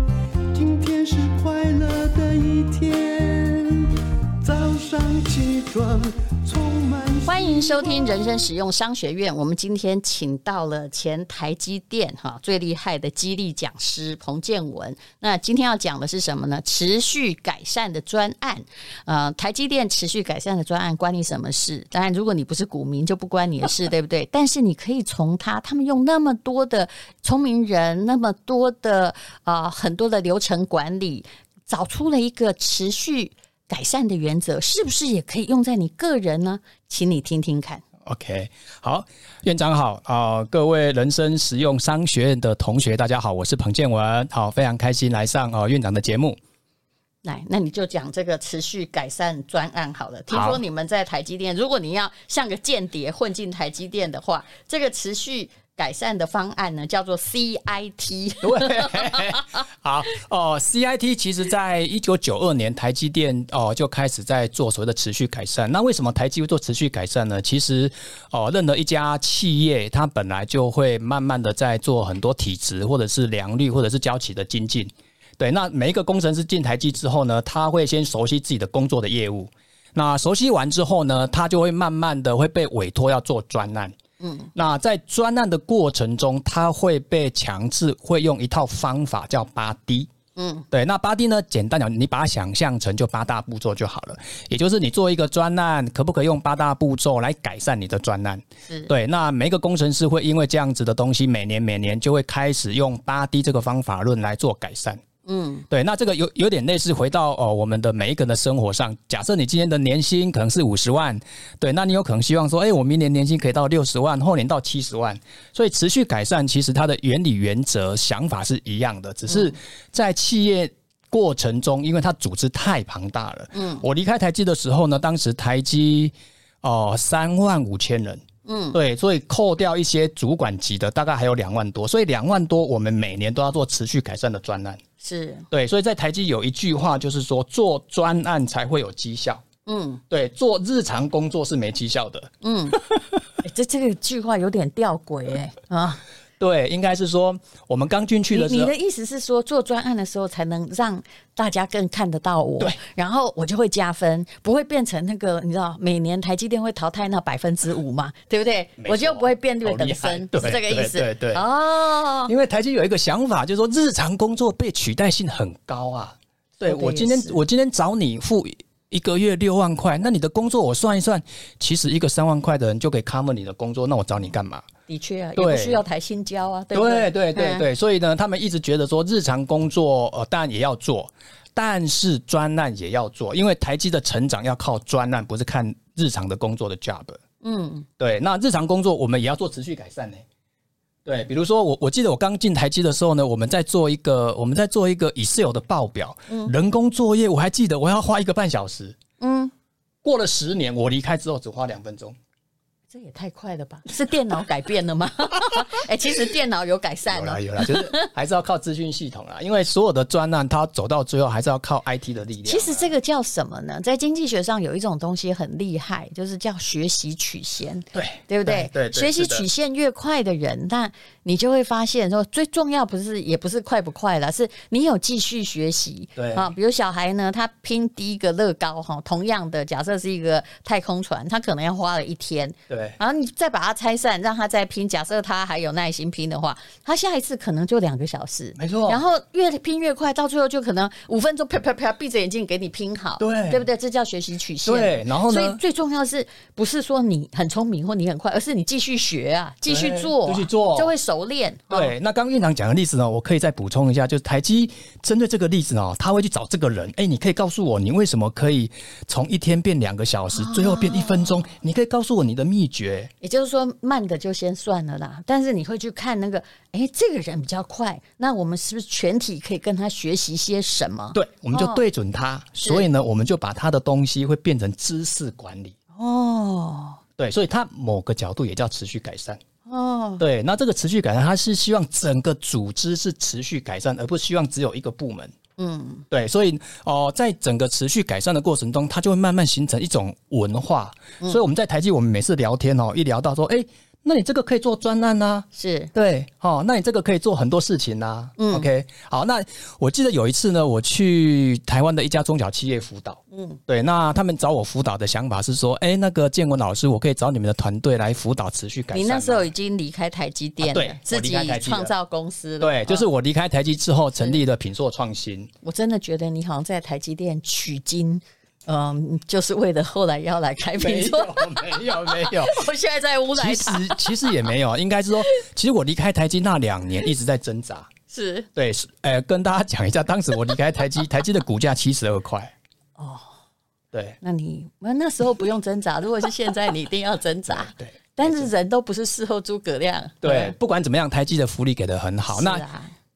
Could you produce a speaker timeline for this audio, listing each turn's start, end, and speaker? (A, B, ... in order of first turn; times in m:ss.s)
0:00.5-0:07.7 A
0:07.2-0:37.8 B
0:38.0-0:46.4 C
0:47.2-0:59.4 B
0:50.3-0:50.6 C
0:58.4-1:23.9 C
1:24.2-1:24.5 B
1:24.5-1:30.1 C
1:30.4-1:30.6 B
1:30.7-1:45.0 C
1:45.2-1:45.6 B
1:45.7-2:14.8 C
1:59.3-1:59.5 B
2:03.5-2:03.8 B
2:08.4-2:08.8 B
2:15.0-2:15.4 B
2:15.5-2:19.4 C
2:19.6-2:20.0 B
2:20.1-2:22.3 C
2:22.4-2:22.8 B
2:23.4-2:26.0 B
2:26.4-2:28.7 C
2:28.3-2:42.3 B
2:38.8-2:41.4 C
2:42.3-2:54.6 C
2:46.6-2:47.4 B
2:54.9-2:57.6 B
2:55.4-2:55.8 C
2:56.7-3:07.2 C
3:07.4-3:07.9 B
3:08.0-3:10.2 C
3:11.0-3:19.0 C
3:19.2-3:19.5 B
3:20.0-3:22.1 C
3:22.9-3:28.1 B
3:27.1-3:32.9 C
3:32.4-4:11.9 B
3:37.9-3:39.4 C
3:46.2-3:46.5 C
3:52.7-3:53.0 C
3:58.6-3:59.0 C
4:03.2-4:03.6 C
4:04.6-4:05.6 C
4:09.7-4:10.9 C
4:11.7-4:23.1 C
4:20.4-4:21.4 B
4:23.2-4:31.8 B
4:31.1-4:35.8 C
4:36.0-4:37.0 B
4:37.2-4:39.4 C
4:39.7-4:40.2 B
4:40.2-4:45.3 C
4:45.6-4:46.0 B
4:46.1-5:09.5 C
4:55.5-4:55.9 B
4:58.4-4:58.7 B
5:03.3-5:03.6 B
5:08.9-5:13.0 B
5:10.6-5:11.9 C
5:12.6-5:15.5 C
5:15.6-5:24.4 B
5:20.8-5:22.6 C
5:23.4-5:27.9 C
5:28.1-5:28.5 B
5:28.6-5:32.5 C
5:33.0-5:33.3 B
5:33.9-5:34.2 C
5:34.2-5:40.5 B
5:37.5-5:38.5 C
5:40.2-5:42.6 C
5:42.3-5:42.9 B